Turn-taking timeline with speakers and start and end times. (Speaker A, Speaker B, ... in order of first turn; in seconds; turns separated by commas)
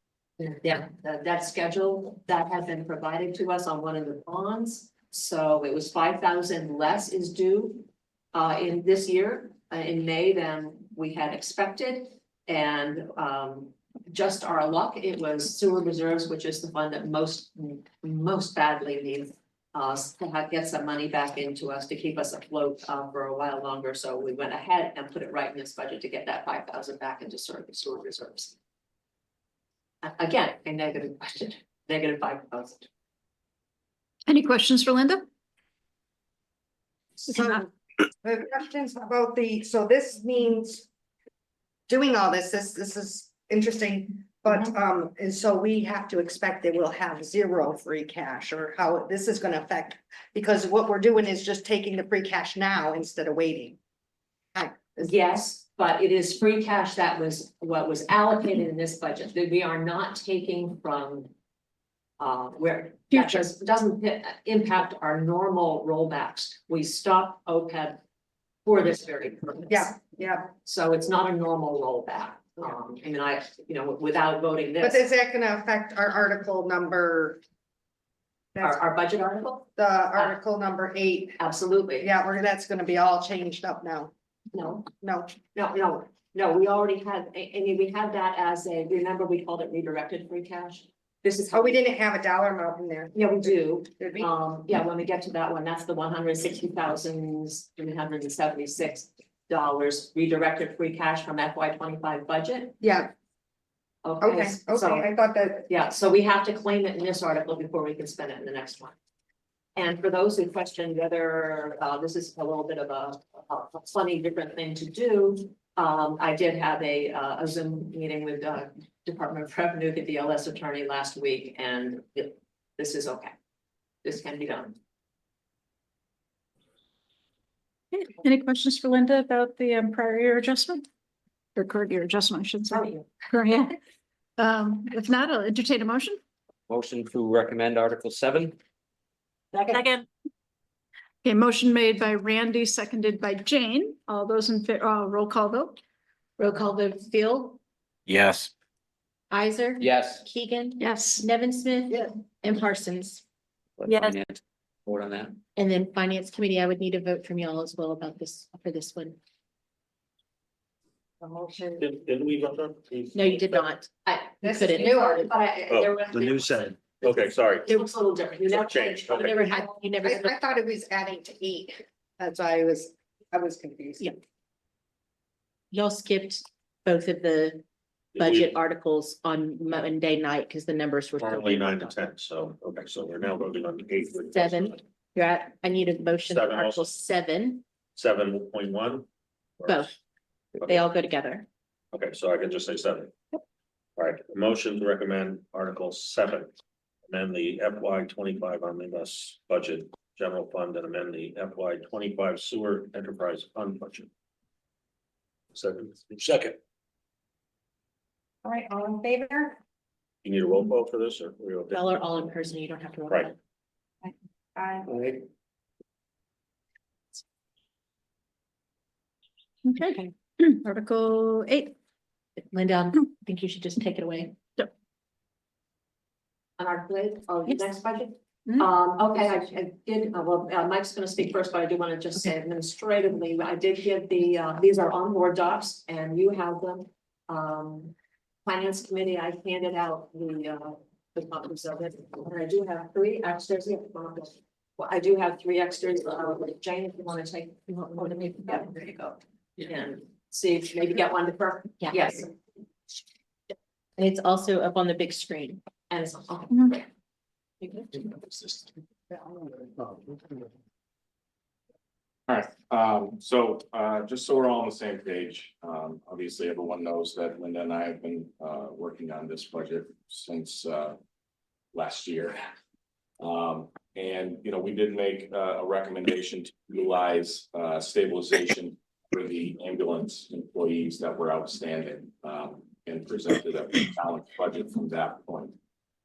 Speaker A: 0.4-28.6, Speaker A: 30.0-32.9, Speaker B: 34.3-35.3, Speaker C: 37.2-40.9, Speaker C: 41.9-53.8, Speaker C: 54.5-55.1, Speaker A: 55.0-61.3, Speaker A: 62.2-68.0, Speaker A: 68.7-70.0, Speaker C: 69.7-70.5, Speaker A: 70.6-75.0, Speaker C: 74.8-77.4, Speaker C: 78.5-78.8, Speaker A: 78.6-80.3, Speaker C: 79.8-81.4, Speaker A: 81.4-82.1, Speaker C: 82.0-84.1, Speaker A: 84.5-84.9, Speaker C: 85.0-85.3, Speaker A: 85.5-91.8, Speaker C: 91.5-94.3, Speaker A: 93.2-102.8, Speaker C: 102.8-103.1, Speaker A: 104.0-105.1, Speaker C: 104.2-105.7, Speaker A: 105.7-109.0, Speaker A: 109.8-123.3, Speaker A: 124.0-124.8, Speaker B: 127.9-130.9, Speaker B: 131.6-133.8, Speaker A: 132.7-133.1, Speaker B: 134.4-136.2, Speaker D: 136.7-138.6, Speaker B: 141.2-145.8, Speaker E: 146.4-147.6, Speaker D: 148.1-148.5, Speaker E: 149.3-153.2, Speaker D: 149.8-150.2, Speaker B: 150.8-151.2, Speaker D: 153.8-155.4, Speaker E: 155.6-159.2, Speaker C: 161.2-161.9, Speaker F: 161.8-163.7, Speaker E: 163.1-163.9, Speaker A: 164.1-169.8, Speaker C: 164.4-165.3, Speaker E: 164.4-164.9, Speaker F: 165.7-167.8, Speaker F: 168.4-169.4, Speaker E: 169.2-170.3, Speaker C: 170.0-174.1, Speaker E: 175.7-177.6, Speaker F: 178.2-178.5, Speaker E: 178.2-182.1, Speaker F: 181.2-184.8, Speaker E: 184.2-187.6, Speaker F: 186.3-186.8, Speaker F: 188.0-189.1, Speaker F: 189.6-189.9, Speaker E: 189.7-189.9, Speaker E: 190.6-191.5, Speaker F: 191.9-193.1, Speaker F: 194.0-196.5, Speaker F: 197.1-204.1, Speaker F: 205.5-206.6, Speaker C: 208.4-209.6, Speaker F: 210.2-211.8, Speaker E: 211.7-213.4, Speaker C: 214.0-214.9, Speaker D: 214.9-215.2, Speaker B: 219.7-220.9, Speaker E: 219.8-220.1, Speaker E: 220.9-221.4, Speaker E: 222.4-224.4, Speaker A: 226.6-237.9, Speaker A: 238.4-252.3, Speaker E: 247.7-248.6, Speaker E: 254.0-255.6, Speaker A: 255.9-256.9, Speaker E: 257.6-257.9, Speaker G: 258.1-258.7, Speaker G: 262.3-271.0, Speaker G: 271.7-272.4, Speaker G: 273.2-285.6